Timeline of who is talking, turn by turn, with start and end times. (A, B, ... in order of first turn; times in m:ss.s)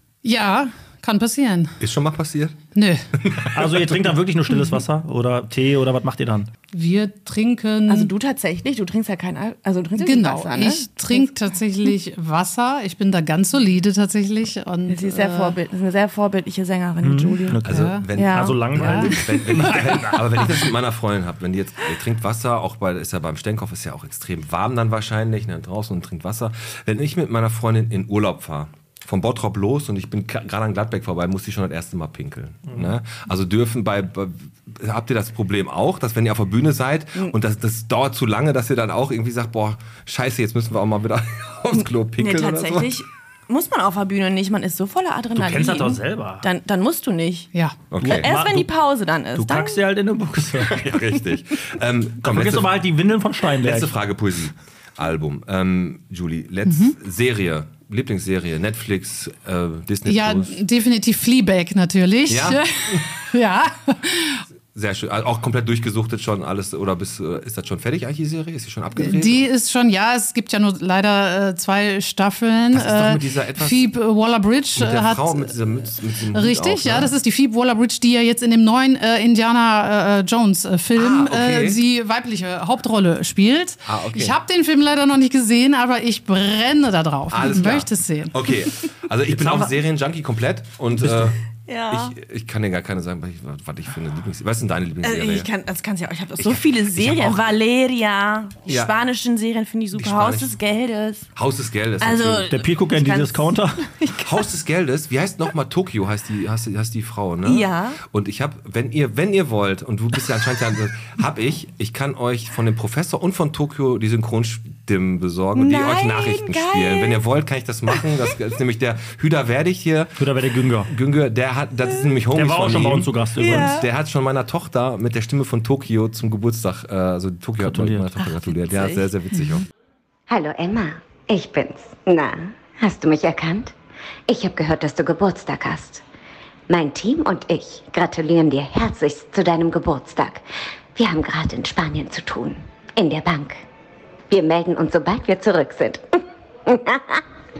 0:00.2-0:01.7 A
0:01.8-0:02.6 B
0:02.7-0:03.0 A
0:03.3-0:03.8 B
0:03.5-0:06.5 C
0:06.7-0:08.1 A
0:07.9-0:11.3 D
0:10.0-0:15.6 A
0:14.9-0:17.6 D
0:17.0-0:20.6 C
0:17.6-0:18.0 A
0:17.6-0:42.9 B
0:18.1-0:19.2 D
0:41.8-0:47.5 D
0:45.3-0:46.4 C
0:47.9-0:48.3 B
0:48.0-0:48.7 C
0:48.1-0:49.8 D
0:49.4-0:51.0 C
0:50.6-0:52.8 B
0:52.2-0:54.0 C
0:53.6-1:00.6 B
0:56.6-0:56.9 A
1:00.0-1:04.4 A
1:02.3-1:03.1 B
1:04.7-1:09.5 B
1:08.9-1:15.6 A
1:12.7-1:13.9 B
1:14.7-1:17.1 B
1:16.3-1:28.4 A
1:20.9-1:21.8 B
1:23.9-1:24.4 B
1:27.3-1:35.5 B
1:29.3-1:29.7 C
1:31.0-1:31.3 C
1:31.6-1:32.2 D
1:35.0-1:41.3 D
1:36.4-1:37.4 B
1:39.9-1:40.6 B
1:41.4-1:42.5 B
1:42.0-1:44.5 D
1:42.5-1:43.8 C
1:44.2-2:00.2 B
1:47.4-1:48.0 D
1:55.5-1:57.2 D
2:00.2-2:00.9 C
2:00.8-2:09.6 B
2:02.3-2:03.8 C
2:03.4-2:03.9 D
2:07.6-2:08.1 C
2:08.2-2:09.1 D
2:10.3-2:13.7 E
2:14.3-2:16.0 E
2:16.7-2:23.6 E
2:24.3-2:27.2 E